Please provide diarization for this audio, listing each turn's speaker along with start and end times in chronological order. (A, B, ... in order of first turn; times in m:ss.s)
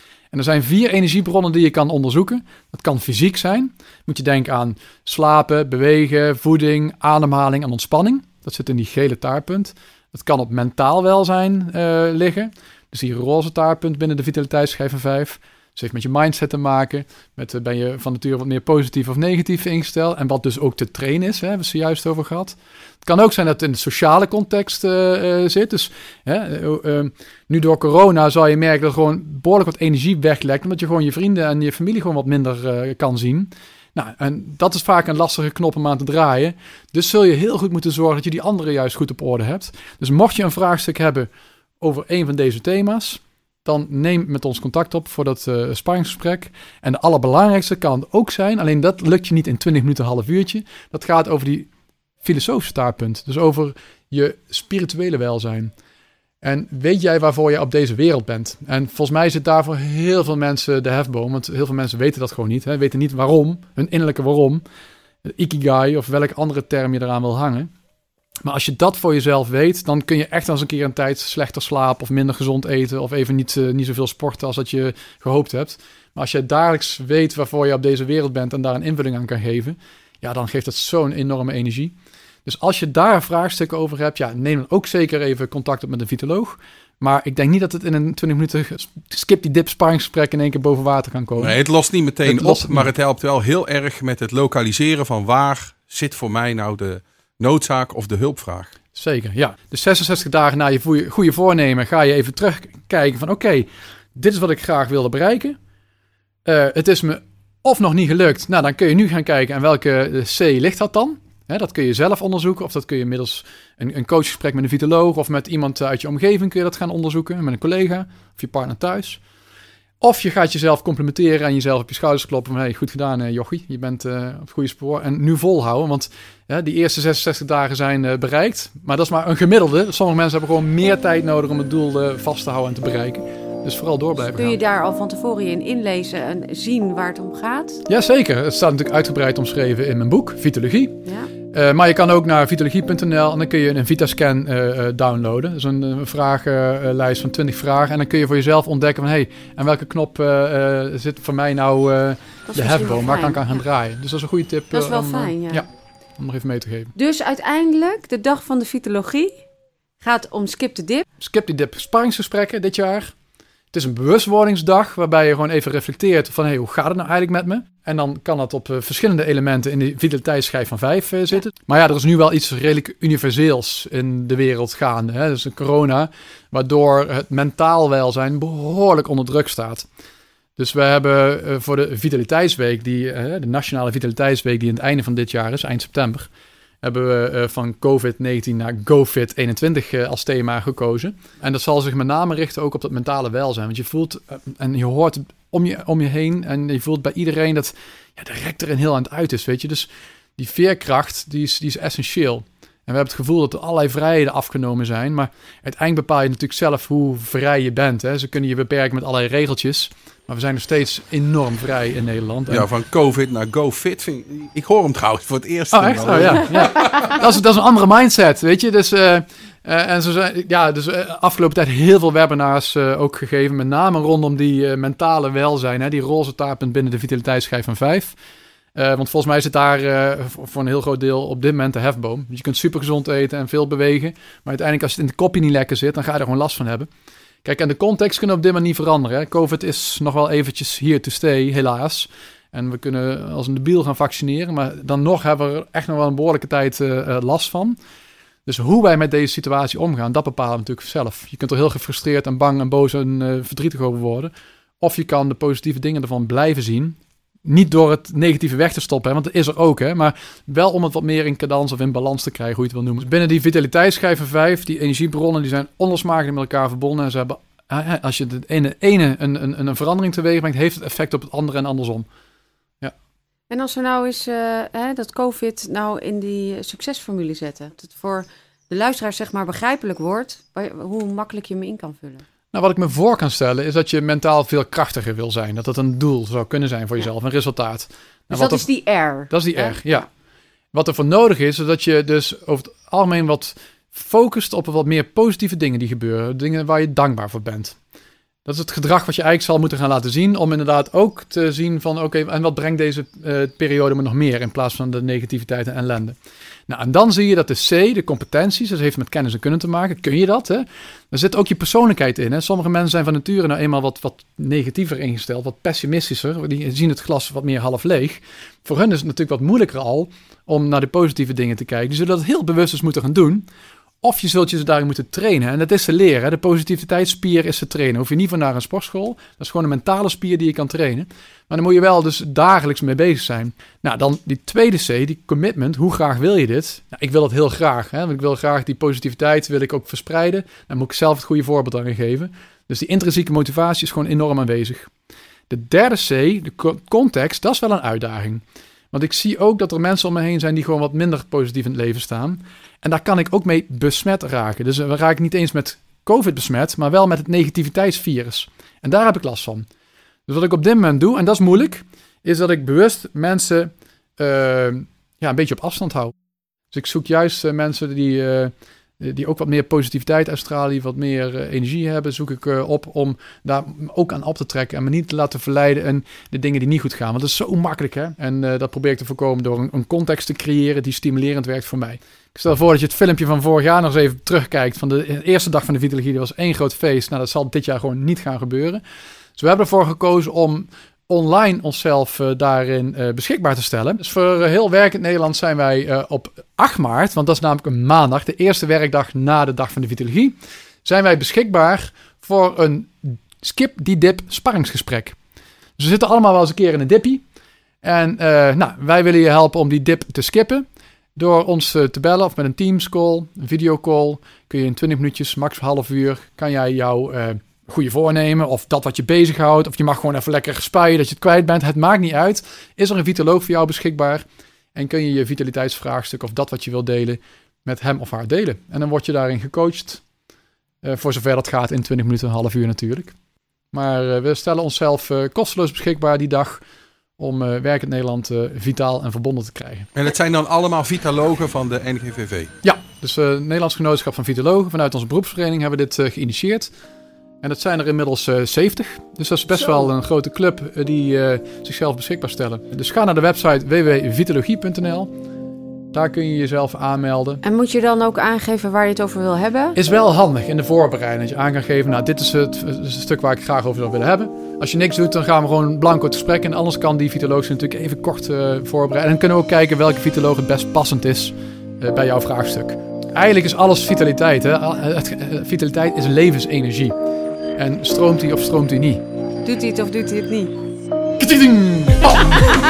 0:00.3-0:51.7 A
0:52.2-0:55.7 A
0:56.4-1:04.6 A
1:05.2-1:07.7 A
1:08.4-1:31.6 A
1:31.4-1:38.7 B
1:32.2-1:32.9 A
1:38.9-1:45.6 A
1:46.4-1:59.2 A
2:00.0-2:14.6 A
2:14.2-2:17.8 C
2:17.8-2:21.0 A
2:21.0-2:21.3 C
2:21.5-2:35.6 A
2:32.5-2:33.5 C
2:34.7-2:35.6 C
2:36.2-2:36.9 A
2:37.0-2:39.4 C
2:40.0-2:41.0 C
2:41.2-2:43.1 A
2:43.7-2:59.9 A
3:00.6-3:06.3 A
3:06.8-3:32.7 A
3:32.5-3:37.2 B
3:35.7-3:48.2 A
3:48.7-3:56.9 A
3:57.4-4:07.8 A
4:08.4-4:32.1 A
4:33.5-4:42.2 C
4:42.5-4:48.7 A
4:48.3-4:49.9 C
4:49.3-4:50.1 A
4:50.7-4:57.8 A
4:58.4-5:06.2 A
5:06.7-5:23.4 A
5:24.0-5:44.9 A
5:45.5-5:59.7 A
6:00.3-6:06.1 A
6:06.7-6:28.8 A
6:29.4-6:45.2 A
6:45.8-6:47.2 A
6:47.8-6:50.6 A
6:51.2-7:10.0 A
7:10.8-7:13.1 A
7:13.7-7:16.6 A
7:17.2-7:19.9 A
7:19.9-7:22.5 B
7:22.6-7:26.7 A
7:27.4-7:35.1 A
7:35.9-7:37.4 A
7:37.4-7:39.8 C
7:39.7-7:56.9 A
7:57.6-7:59.0 A
7:59.4-8:00.5 C
8:01.2-8:02.5 A